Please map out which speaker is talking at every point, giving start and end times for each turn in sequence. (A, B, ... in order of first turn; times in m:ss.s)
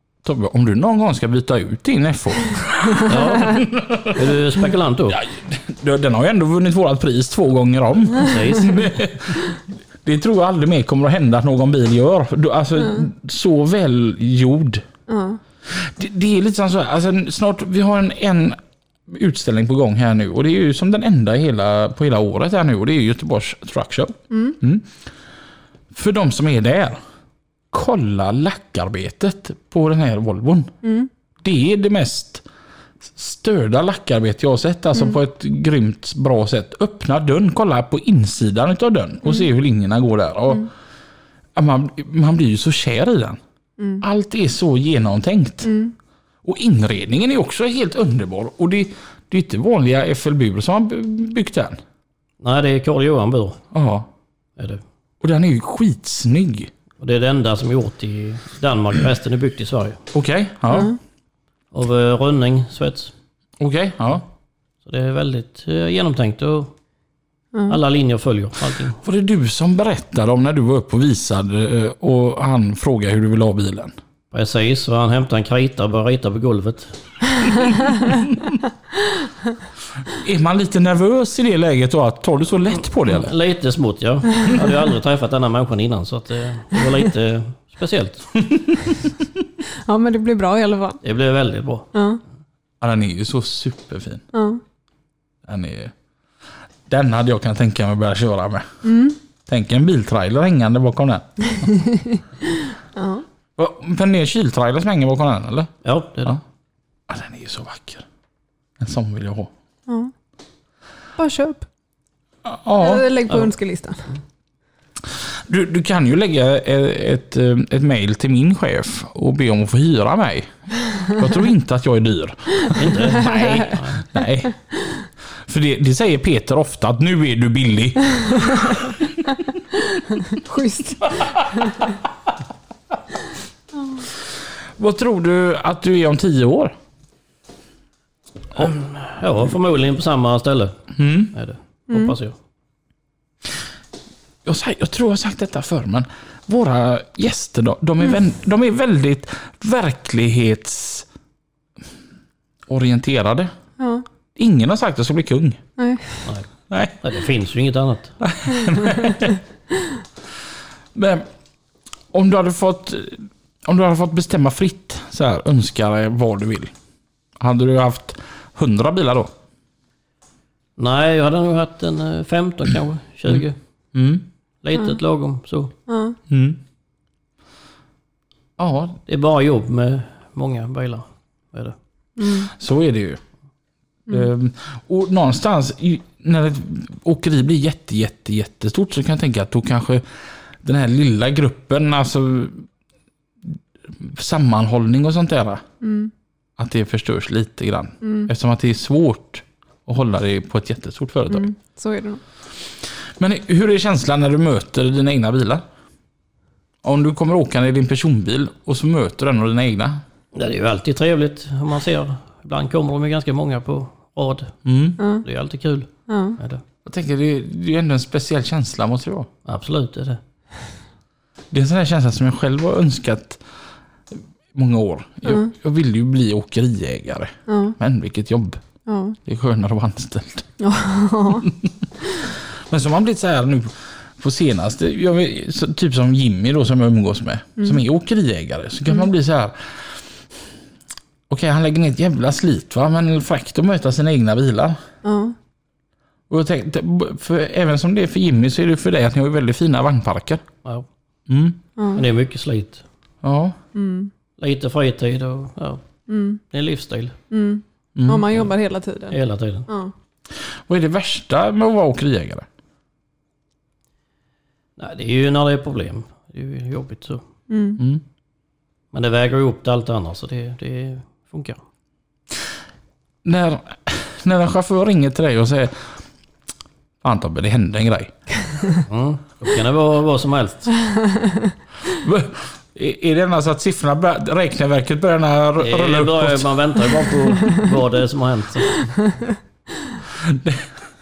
0:00.2-0:04.4 A
0:03.1-0:05.2 B
0:05.1-0:14.8 A
0:08.2-0:08.9 B
0:15.1-0:15.4 C
0:15.7-0:24.9 A
0:24.3-0:24.6 C
0:25.9-0:27.0 A
0:27.7-0:30.7 A
0:30.8-0:31.1 C
0:31.4-0:32.4 A
0:33.0-0:40.7 A
0:41.6-0:43.4 A
0:43.8-0:44.0 C
0:44.0-0:45.7 A
0:45.6-0:45.9 C
0:46.4-0:51.8 A
0:52.4-0:53.6 B
0:53.7-0:54.1 A
0:54.6-0:54.8 B
0:55.2-0:56.7 A
0:57.0-1:00.0 B
1:00.1-1:00.9 A
1:00.7-1:01.0 C
1:01.7-1:03.1 B
1:03.6-1:04.2 A
1:04.9-1:06.7 B
1:07.5-1:07.8 C
1:07.7-1:09.0 B
1:09.0-1:13.9 A
1:14.3-1:17.0 B
1:20.1-1:23.3 A
1:23.1-1:28.3 B
1:29.8-1:31.0 C
1:31.0-1:31.9 B
1:31.9-1:32.2 C
1:32.8-1:34.2 A
1:34.3-1:34.6 C
1:35.4-1:35.9 A
1:36.9-1:38.7 A
1:38.8-1:39.2 C
1:39.5-1:41.3 A
1:41.6-1:43.2 C
1:43.6-1:45.7 A
1:45.8-1:46.4 B
1:47.1-1:48.0 A
1:48.8-1:49.5 A
1:51.2-1:51.7 C
1:52.4-1:53.1 A
1:52.8-1:54.0 C
1:55.5-2:04.5 A
2:02.7-2:04.0 B
2:03.1-2:03.7 C
2:05.5-2:08.7 A
2:10.0-2:12.0 C
2:14.8-2:16.8 A
2:18.6-2:20.8 B
2:21.0-2:21.3 A
2:21.3-2:22.4 B
2:24.4-2:31.1 A
2:32.7-2:33.5 A
2:33.8-2:34.0 C
2:34.4-2:35.6 A
2:35.8-2:36.3 C
2:36.7-2:37.0 A
2:37.0-2:38.2 B
2:38.2-2:39.4 A
2:41.0-2:41.3 A
2:42.1-2:46.7 A
2:47.4-2:49.3 A
2:50.8-2:53.6 B
2:53.3-2:54.2 A
2:54.6-2:55.7 B
2:55.9-2:56.2 C
2:56.3-2:56.6 A
2:58.6-2:59.0 A
2:59.1-3:01.8 B
3:02.2-3:02.5 C
3:02.5-3:03.2 A
3:04.1-3:10.0 A
3:10.6-3:12.7 A
3:14.0-3:15.6 A
3:15.8-3:16.1 C
3:16.6-3:21.5 A
3:18.0-3:18.3 C
3:21.3-3:22.2 C
3:23.2-3:25.6 A
3:26.8-3:30.0 A
3:30.3-3:36.6 B
3:34.7-3:35.0 A
3:35.0-3:35.2 C
3:36.1-3:36.4 C
3:36.8-3:39.3 A
3:39.4-3:40.2 B
3:41.5-3:43.4 A
3:44.5-3:48.6 A
3:45.3-3:45.5 C
3:47.5-3:47.8 C
3:48.9-3:49.2 C
3:49.2-3:50.5 A
3:50.6-3:51.5 C
3:51.5-4:00.0 A
3:57.6-3:57.8 C
4:01.3-4:04.8 A
4:05.0-4:05.4 C
4:06.3-4:10.4 A
4:11.3-4:11.6 A
4:11.8-4:12.0 C
4:12.0-4:12.8 B
4:13.2-4:13.6 A
4:13.7-4:14.1 C
4:14.4-4:15.8 B
4:16.1-4:16.4 C
4:16.4-4:17.2 B
4:17.3-4:19.9 C
4:18.0-4:18.3 A
4:19.1-4:19.7 B
4:20.7-4:22.5 A
4:24.8-4:27.2 B
4:27.5-4:27.8 C
4:28.9-4:31.6 B
4:33.2-4:35.9 A
4:37.0-4:38.1 A
4:38.9-4:40.7 B
4:40.9-4:41.5 C
4:41.9-4:46.5 A
4:45.6-4:49.0 B
4:50.2-4:50.7 A